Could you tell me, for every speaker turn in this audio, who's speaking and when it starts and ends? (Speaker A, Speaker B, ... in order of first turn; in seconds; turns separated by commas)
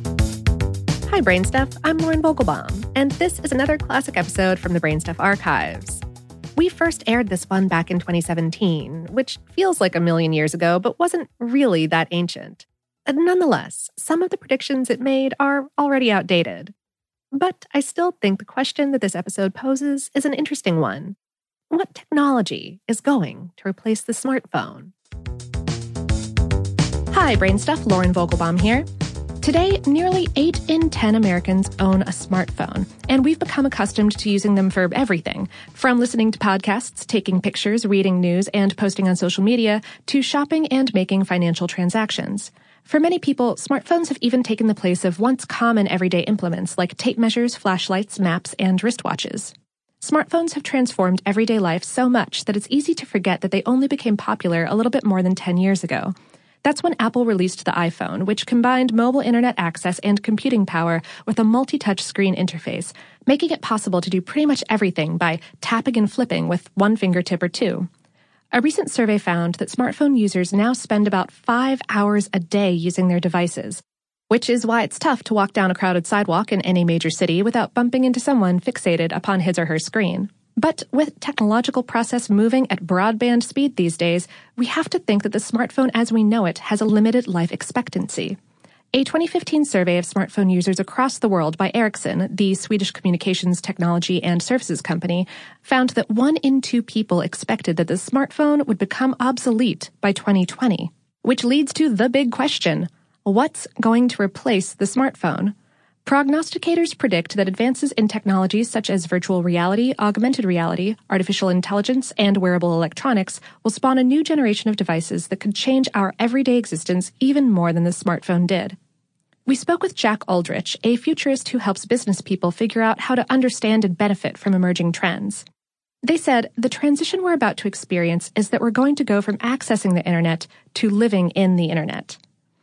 Speaker A: 1.1-6.0, Speaker A: 6.5-16.7, Speaker A: 17.3-21.1, Speaker A: 21.7-24.9, Speaker A: 27.1-28.9, Speaker A: 29.4-67.9, Speaker A: 68.5-88.4, Speaker A: 88.9-118.8, Speaker A: 119.5-125.4, Speaker A: 126.0-132.2